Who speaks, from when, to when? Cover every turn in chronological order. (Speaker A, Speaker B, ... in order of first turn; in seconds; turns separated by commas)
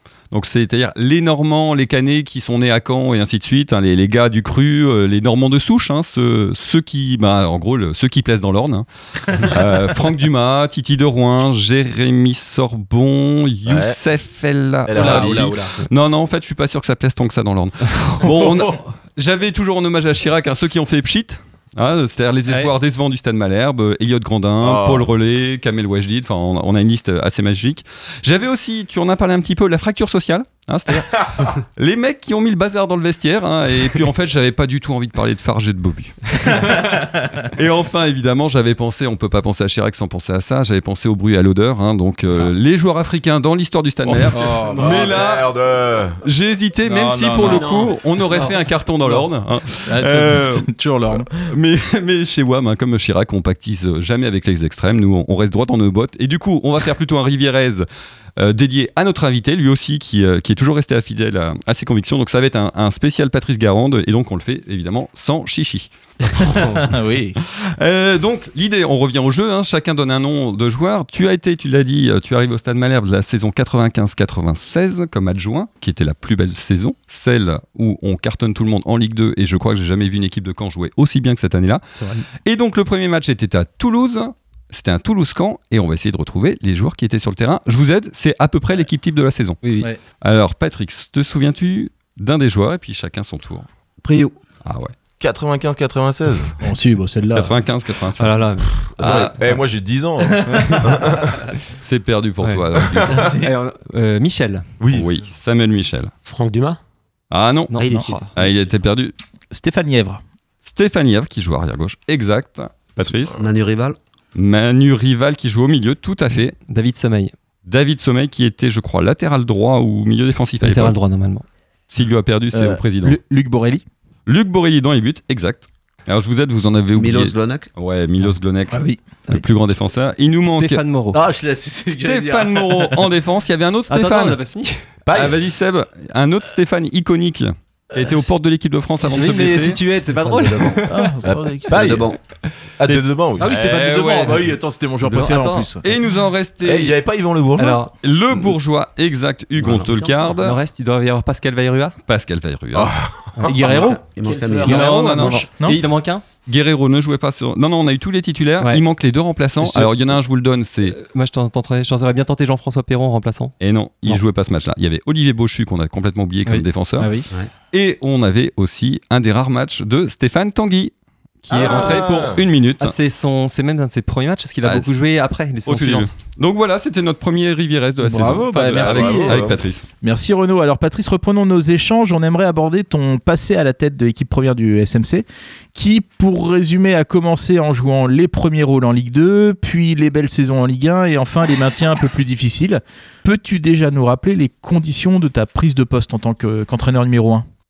Speaker A: 0.3-36.9, Speaker B: 13.7-14.0, Speaker B: 14.8-15.8, Speaker B: 24.6-25.1, Speaker A: 37.5-45.6, Speaker B: 44.1-46.2, Speaker C: 44.3-45.1, Speaker A: 46.2-57.9, Speaker C: 46.8-49.3, Speaker D: 47.4-48.0, Speaker C: 49.9-51.3, Speaker A: 58.4-66.6, Speaker C: 66.6-67.4, Speaker A: 67.6-81.8, Speaker A: 82.4-89.6, Speaker E: 89.6-89.9, Speaker A: 90.2-93.7, Speaker F: 94.0-94.3, Speaker A: 94.7-94.9, Speaker B: 95.2-96.6, Speaker C: 96.6-97.6, Speaker A: 97.3-99.4, Speaker E: 98.2-99.3, Speaker B: 99.0-101.3, Speaker C: 100.4-100.8, Speaker A: 101.8-103.3, Speaker E: 102.4-104.7, Speaker C: 103.1-103.5, Speaker B: 104.8-105.2, Speaker A: 104.9-106.1, Speaker D: 106.2-106.8, Speaker A: 107.3-109.1, Speaker E: 107.7-108.4, Speaker D: 107.8-108.1, Speaker C: 109.5-110.2, Speaker A: 110.7-113.3, Speaker F: 113.3-114.0, Speaker A: 114.3-116.6, Speaker E: 116.6-117.3, Speaker A: 117.6-121.0, Speaker E: 120.6-121.4, Speaker A: 121.9-123.2, Speaker C: 122.5-123.8, Speaker A: 124.3-130.9, Speaker F: 126.9-127.7, Speaker C: 128.7-129.0, Speaker E: 129.2-129.8, Speaker E: 130.4-131.2, Speaker C: 131.1-133.1, Speaker A: 131.9-139.8, Speaker E: 133.9-134.8, Speaker B: 135.1-135.4, Speaker E: 139.0-141.2, Speaker C: 140.9-141.7, Speaker B: 141.2-142.1, Speaker F: 141.7-142.2, Speaker B: 142.8-143.6, Speaker C: 143.4-146.0, Speaker A: 144.1-144.3, Speaker E: 145.1-145.7, Speaker A: 145.8-147.0, Speaker B: 146.6-148.5, Speaker E: 147.6-147.9, Speaker A: 147.9-150.6, Speaker E: 149.7-151.9, Speaker A: 151.9-152.9, Speaker B: 152.7-153.5, Speaker C: 153.4-154.1, Speaker F: 153.6-155.0, Speaker D: 154.2-154.7, Speaker C: 154.6-155.8, Speaker E: 154.7-156.2, Speaker A: 154.7-155.4, Speaker A: 156.4-161.0, Speaker E: 159.6-160.2, Speaker E: 160.9-163.6, Speaker A: 163.6-167.1, Speaker E: 166.4-167.3, Speaker A: 167.7-172.9, Speaker B: 171.5-172.4, Speaker E: 171.6-172.0, Speaker E: 172.8-176.1, Speaker A: 174.6-174.9, Speaker A: 175.7-179.8, Speaker C: 178.0-179.5, Speaker B: 178.7-179.6, Speaker C: 180.0-197.4